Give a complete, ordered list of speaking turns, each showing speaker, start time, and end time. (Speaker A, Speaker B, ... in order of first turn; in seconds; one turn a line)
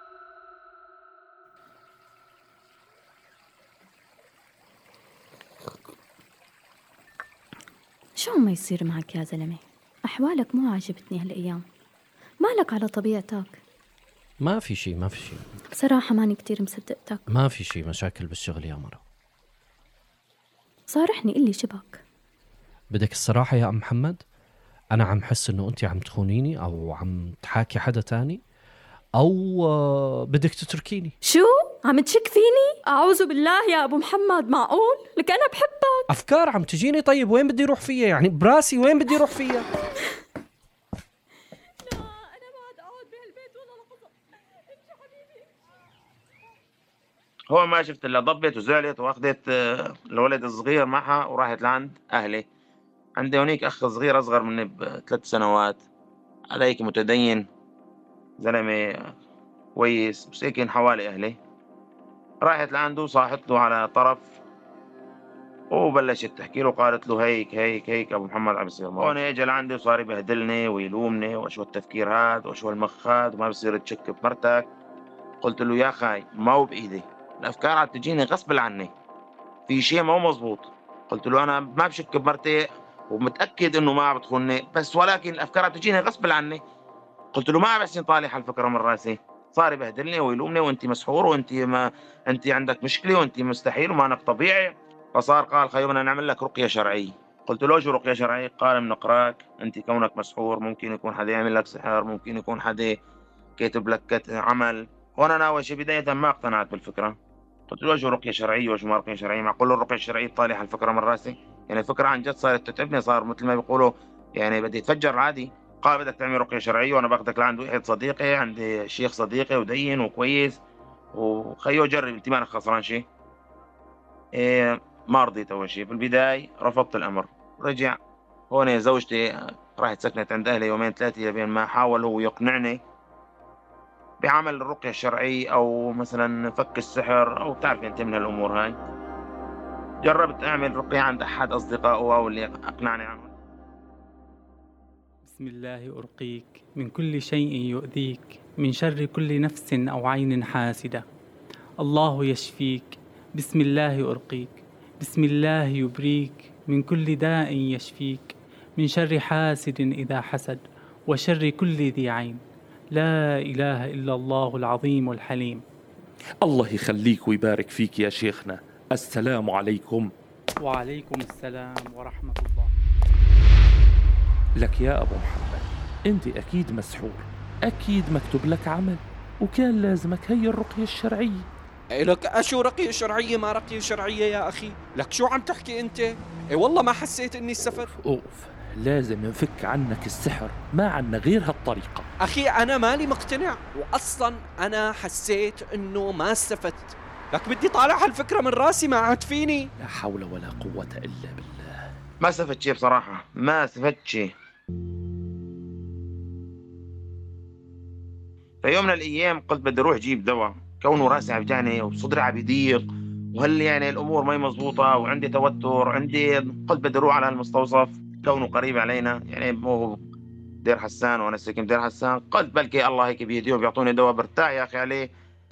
Speaker A: 8.2-11.6
Speaker A: 12.4-13.6
Speaker B: 14.4-15.5
Speaker A: 15.7-17.2
Speaker B: 17.3-19.0
Speaker A: 20.9-22.0
Speaker B: 22.9-24.2
Speaker B: 24.9-28.4
Speaker B: 29.2-31.1
Speaker A: 31.2-36.1
Speaker B: 36.1-39.6
Speaker C: 47.5-52.5
Speaker C: 53.2-55.8
Speaker C: 56.5-57.5
Speaker C: 58.4-59.1
Speaker C: 59.8-61.4
Speaker C: 62.4-64.3
Speaker C: 65.7-74.7
Speaker C: 75.4-78.9
Speaker C: 79.7-86.6
Speaker C: 87.3-103.0
Speaker C: 103.6-107.2
Speaker C: 107.7-120.6
Speaker C: 121.1-123.0
Speaker C: 124.3-128.0
Speaker C: 128.5-132.8
Speaker C: 134.2-138.8
Speaker C: 140.0-143.3
Speaker D: 145.2-151.0
Speaker D: 151.8-162.4
Speaker D: 162.9-165.6
Speaker E: 166.4-170.1
Speaker D: 170.6-172.7
Speaker E: 174.6-181.5
Speaker F: 181.9-187.9
Speaker E: 187.9-192.1
Speaker F: 192.2-199.7
Speaker E: 199.8-201.8
Speaker C: 202.2-204.3
Speaker C: 208.6-220.0
Speaker C: 220.6-225.1